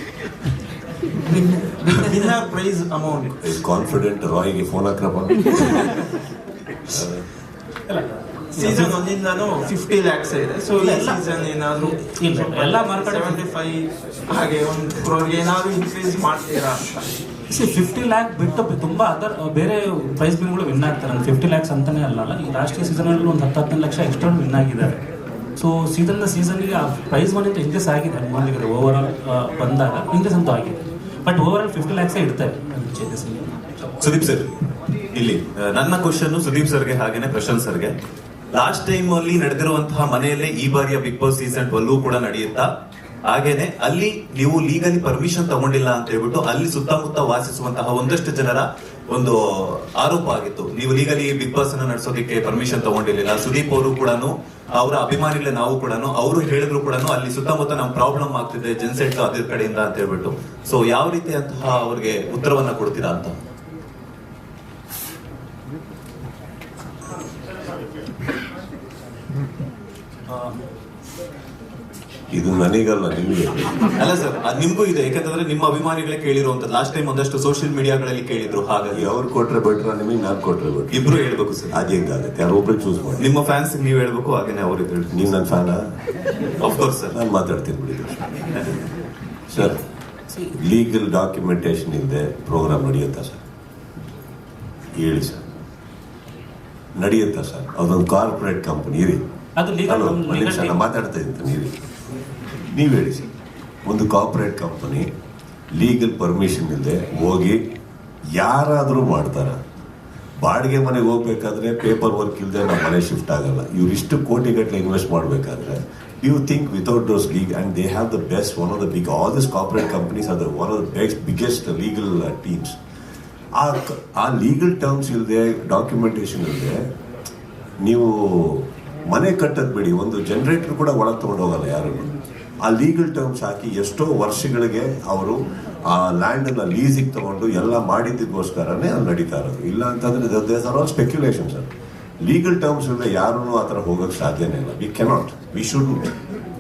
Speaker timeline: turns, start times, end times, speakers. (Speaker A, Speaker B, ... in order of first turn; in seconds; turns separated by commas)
Speaker A: 1.3-3.4, Speaker B: 3.4-5.9, Speaker B: 6.9-7.2, Speaker C: 7.9-8.9, Speaker A: 8.5-17.1, Speaker C: 10.6-11.2, Speaker C: 11.8-13.4, Speaker C: 17.5-25.0, Speaker C: 25.6-33.6, Speaker D: 34.0-34.5, Speaker D: 35.1-38.0, Speaker D: 38.5-42.7, Speaker D: 43.3-63.4, Speaker B: 72.3-73.8, Speaker D: 74.0-79.1, Speaker B: 78.9-81.1, Speaker D: 80.9-81.8, Speaker B: 81.7-83.3, Speaker D: 83.2-85.3, Speaker B: 85.1-85.9, Speaker D: 86.6-87.2, Speaker B: 87.1-88.3, Speaker D: 88.5-88.8, Speaker B: 89.5-89.8, Speaker B: 90.4-93.4, Speaker B: 95.0-95.5, Speaker B: 97.0-99.2, Speaker C: 99.6-100.8, Speaker B: 99.9-101.7, Speaker B: 102.7-103.3, Speaker B: 103.9-105.1, Speaker B: 105.8-107.6, Speaker B: 108.3-109.6, Speaker B: 110.4-122.8, Speaker B: 123.6-126.8, Speaker B: 127.8-141.7, Speaker B: 142.2-146.1